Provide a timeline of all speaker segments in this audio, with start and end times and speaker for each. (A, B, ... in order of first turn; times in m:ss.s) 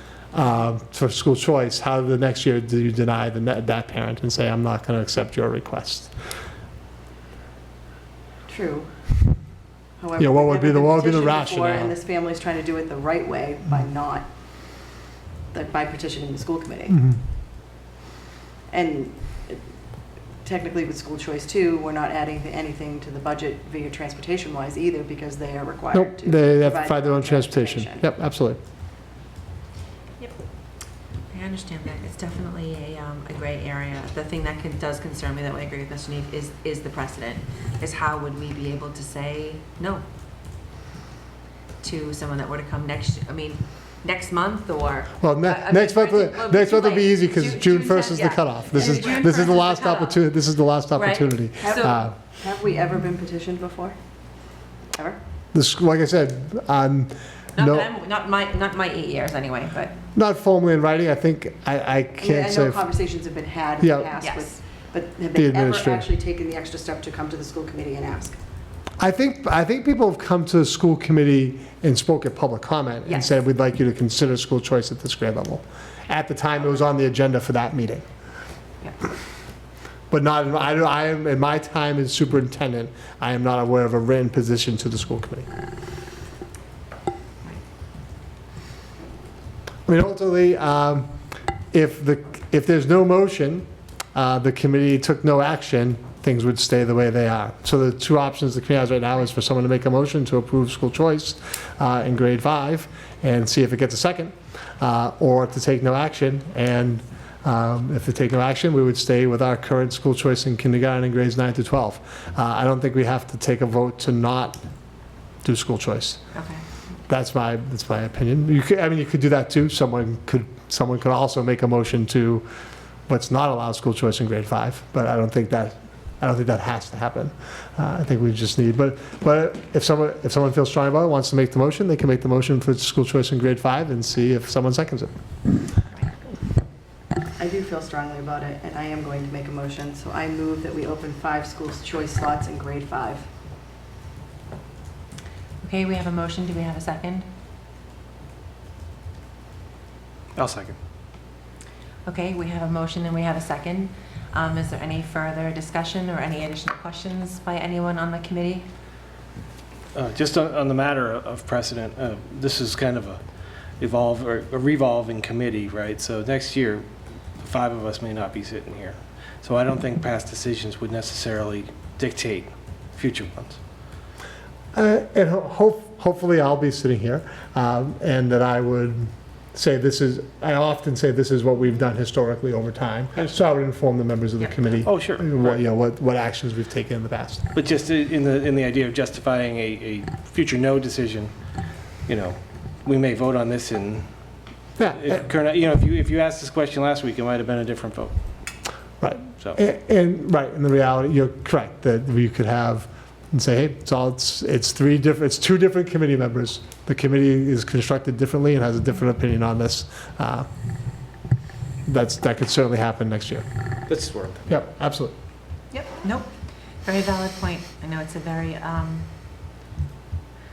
0:00.3-0:06.1 A
0:08.5-0:08.9 B
0:10.0-0:14.3 B
0:10.2-0:11.9 A
0:15.5-0:17.0 B
0:16.9-0:17.2 A
0:18.7-0:19.6 B
0:20.4-0:28.0 B
0:25.9-0:28.6 A
0:31.3-0:40.0 C
0:41.8-0:50.3 C
0:45.2-0:52.1 A
0:50.9-0:52.0 C
0:51.6-0:54.0 B
0:54.9-0:55.2 B
0:55.5-0:57.9 A
0:57.6-1:00.0 C
1:00.2-1:02.8 A
1:02.2-1:08.4 B
1:03.8-1:04.1 A
1:04.2-1:04.5 C
1:05.4-1:06.1 A
1:09.0-1:18.1 A
1:13.1-1:13.3 C
1:20.1-1:25.5 A
1:29.9-1:31.1 A
1:31.7-1:54.6 A
1:55.4-1:56.2 A
1:56.3-1:56.6 C
1:57.1-2:02.5 A
2:03.1-2:15.1 A
2:17.4-2:23.2 B
2:25.6-2:27.3 C
2:30.4-2:30.8 D
2:32.1-2:38.7 C
2:39.9-2:43.2 D
2:43.8-2:53.6 D
2:54.7-3:07.4 A
3:04.8-3:05.6 D
3:07.5-3:11.3 D
3:12.1-3:14.1 D
3:14.8-3:15.2 A
3:14.9-3:18.2 D
3:19.0-3:30.5 A
3:31.9-3:33.4 A
3:33.9-3:34.4 D
3:34.5-3:35.1 A
3:35.7-3:39.1 C